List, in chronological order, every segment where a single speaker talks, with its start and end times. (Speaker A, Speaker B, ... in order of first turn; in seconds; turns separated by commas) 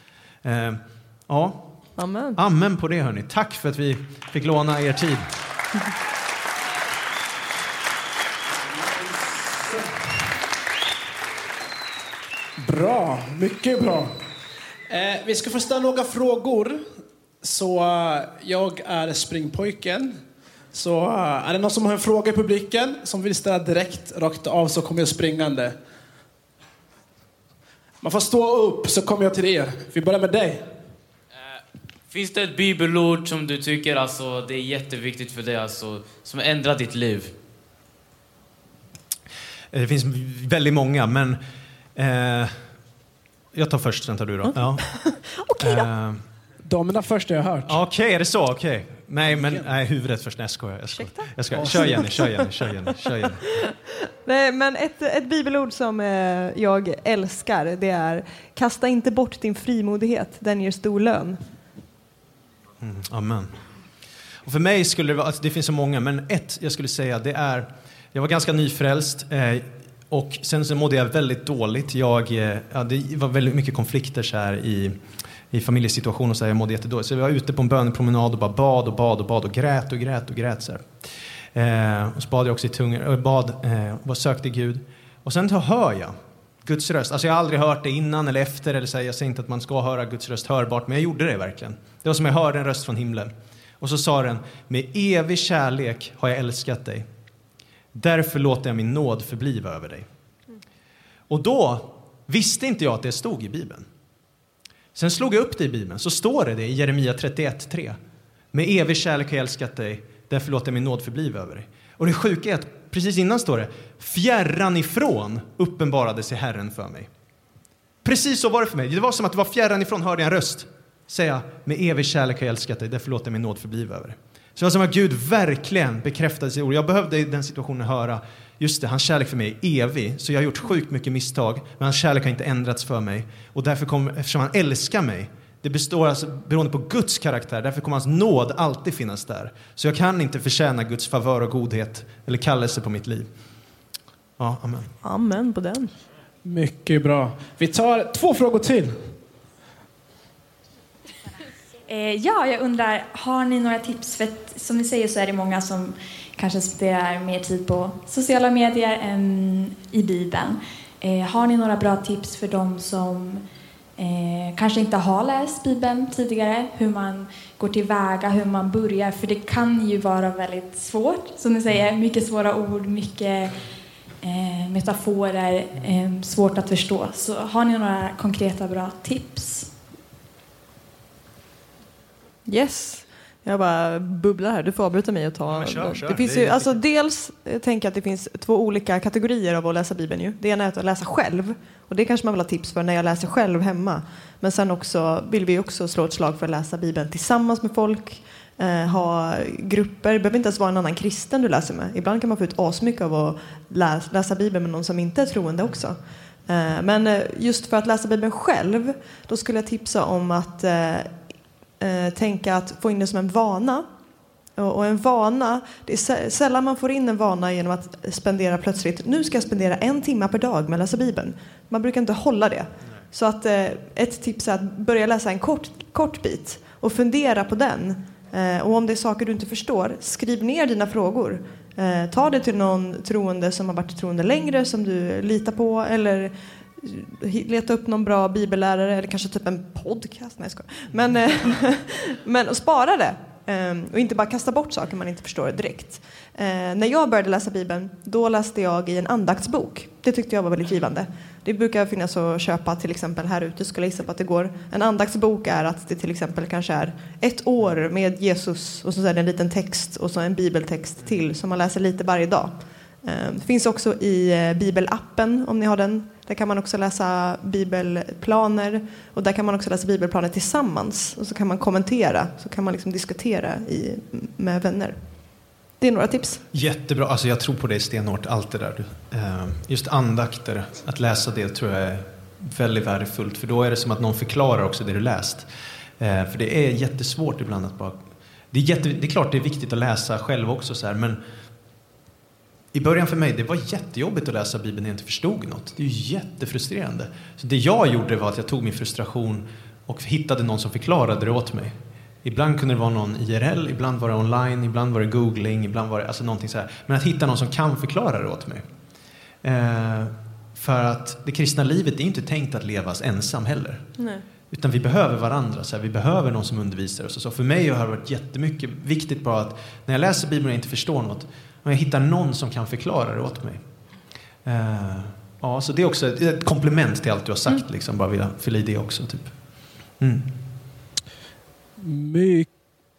Speaker A: 0.4-1.7, Speaker B: 2.0-2.4, Speaker A: 2.4-5.3, Speaker C: 12.6-14.2, Speaker C: 14.9-16.8, Speaker C: 17.4-20.2, Speaker C: 20.7-25.8, Speaker C: 28.0-30.7, Speaker D: 32.1-37.3, Speaker A: 39.7-41.4, Speaker A: 42.0-42.6, Speaker A: 43.5-44.9, Speaker B: 44.5-45.9, Speaker A: 45.6-46.2, Speaker C: 46.6-47.8, Speaker A: 47.6-53.4, Speaker C: 49.4-49.6, Speaker B: 51.0-52.6, Speaker C: 51.5-52.0, Speaker B: 53.2-61.4, Speaker A: 62.8-63.5, Speaker A: 64.5-75.0, Speaker A: 75.5-97.1, Speaker A: 97.9-100.1, Speaker A: 101.3-103.9, Speaker A: 105.0-108.0, Speaker A: 108.5-117.1, Speaker A: 118.0-143.3, Speaker A: 144.4-144.9, Speaker B: 145.0-145.9, Speaker C: 146.4-149.1, Speaker E: 151.9-163.4, Speaker E: 164.0-173.6, Speaker E: 174.2-179.7, Speaker B: 182.5-211.1, Speaker A: 185.5-186.8, Speaker B: 211.8-213.9, Speaker B: 214.6-275.0, Speaker B: 275.8-276.4, Speaker A: 276.5-285.5, Speaker A: 286.0-288.0, Speaker A: 288.5-291.2, Speaker A: 292.7-308.6, Speaker A: 309.4-313.9, Speaker B: 314.0-314.2, Speaker A: 314.5-323.6, Speaker A: 324.4-329.3, Speaker A: 330.0-330.3, Speaker C: 331.8-332.5